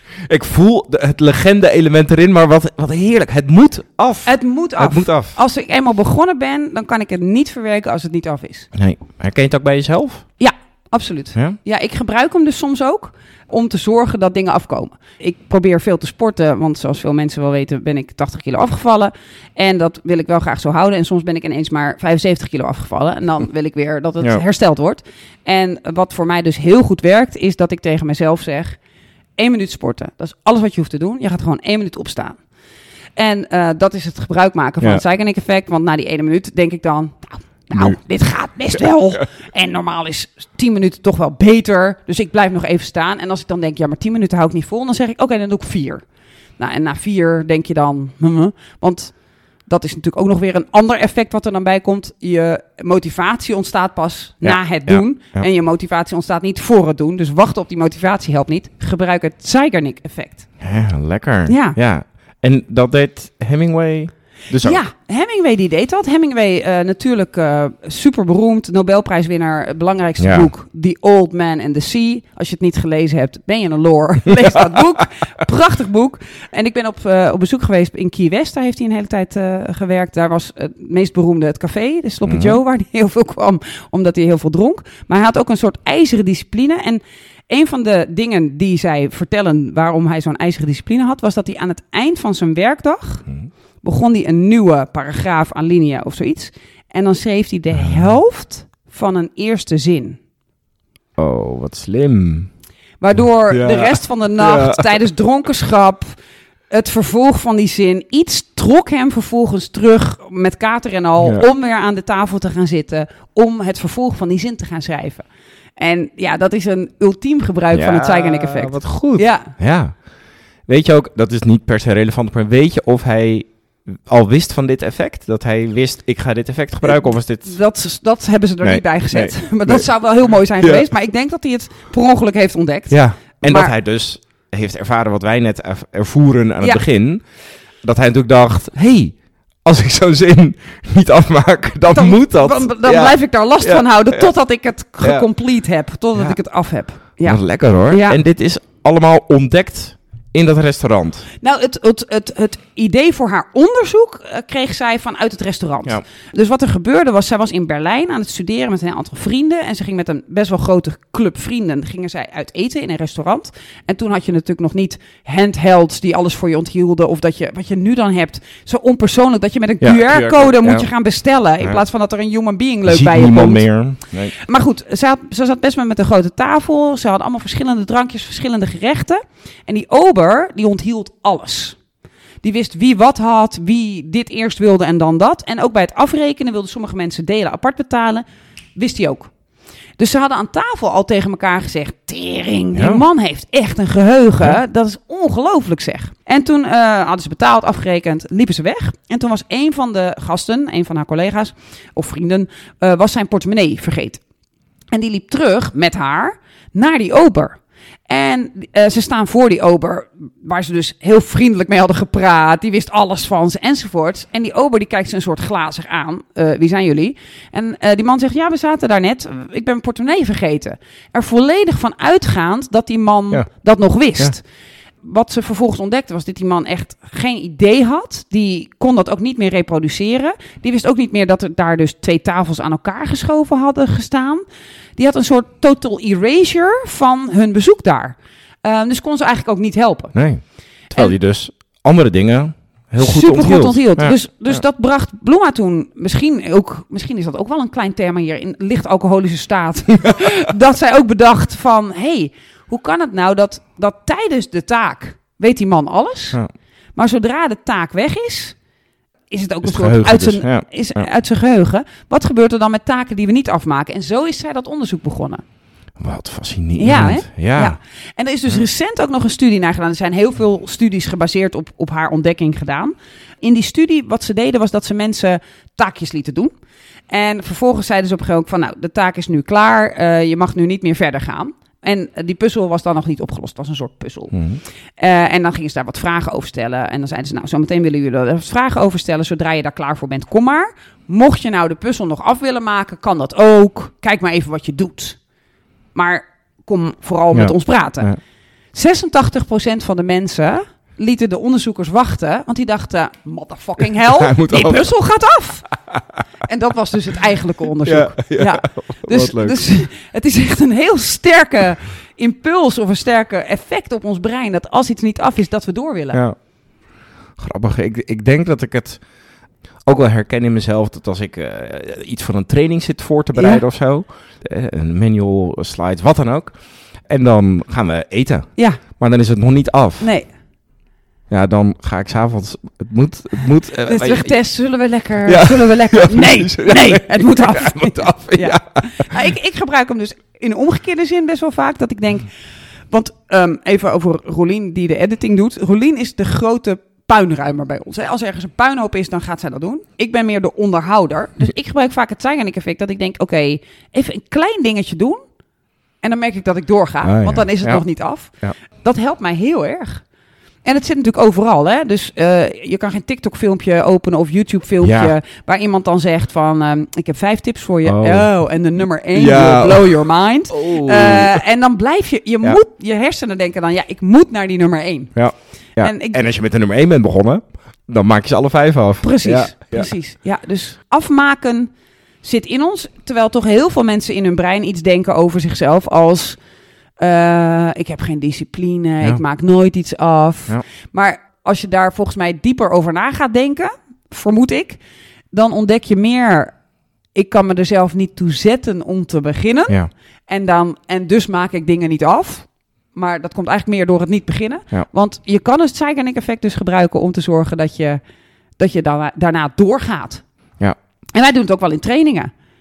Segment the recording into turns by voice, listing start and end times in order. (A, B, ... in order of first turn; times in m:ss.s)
0:00.3-0:05.4 A
0:04.2-0:08.7 B
0:08.7-0:10.2 A
0:10.4-0:28.8 B
0:29.4-0:32.4 B
0:33.2-0:46.0 B
0:46.6-1:00.5 B
0:54.4-0:55.4 A
1:00.6-1:04.8 A
1:01.5-1:01.8 B
1:04.6-1:33.3 B
1:10.2-1:10.5 A
1:22.2-1:22.6 A
1:33.8-1:40.2 B
1:41.2-1:42.5 A
1:43.0-1:46.2 B
1:43.5-1:44.9 A
1:46.7-1:59.5 B
1:51.2-1:51.4 A
1:57.7-2:07.6 A
2:06.8-2:13.7 B
2:08.6-2:10.9 A
2:12.9-2:17.2 A
2:17.8-2:24.3 A
2:21.9-2:28.2 B
2:25.0-2:25.3 A
2:27.1-2:31.3 A
2:31.4-3:01.8 B
2:49.8-2:50.9 A
2:52.8-2:54.4 A
3:02.4-3:08.2 B
3:08.7-3:09.3 B
3:10.0-3:24.2 B
3:12.7-3:13.0 A
3:24.9-3:44.4 B
3:45.0-3:54.4 B
3:55.0-4:01.1 B
4:00.1-4:04.6 A
4:03.0-4:16.4 B
4:16.9-4:18.6 B
4:19.3-4:25.4 B
4:19.6-4:21.0 A
4:26.0-4:27.8 A
4:26.8-4:36.5 B
4:37.1-4:55.2 B
4:44.3-4:44.6 A
4:55.9-4:58.1 B
4:57.3-4:58.2 A
4:58.7-5:05.7 B
5:04.0-5:04.9 A
5:06.4-5:16.2 B
5:07.8-5:09.6 A
5:16.1-5:16.5 A
5:17.4-5:19.1 A
5:19.8-5:30.1 A
5:23.3-5:23.6 B
5:28.6-5:28.8 B
5:30.0-5:30.3 B
5:31.3-5:34.5 A
5:33.8-5:42.3 B
5:35.2-5:39.1 A
5:42.9-5:55.2 B
5:56.0-6:00.0 B
5:57.0-5:58.5 A
6:00.6-6:16.2 B
6:04.8-6:05.1 A
6:07.8-6:08.4 A
6:09.1-6:11.4 A
6:15.1-6:19.9 A
6:19.0-6:21.7 B
6:22.2-6:26.4 B
6:27.0-6:34.8 B
6:35.3-6:36.6 B
6:37.1-6:48.0 B
6:48.6-6:50.2 B
6:51.1-6:52.3 B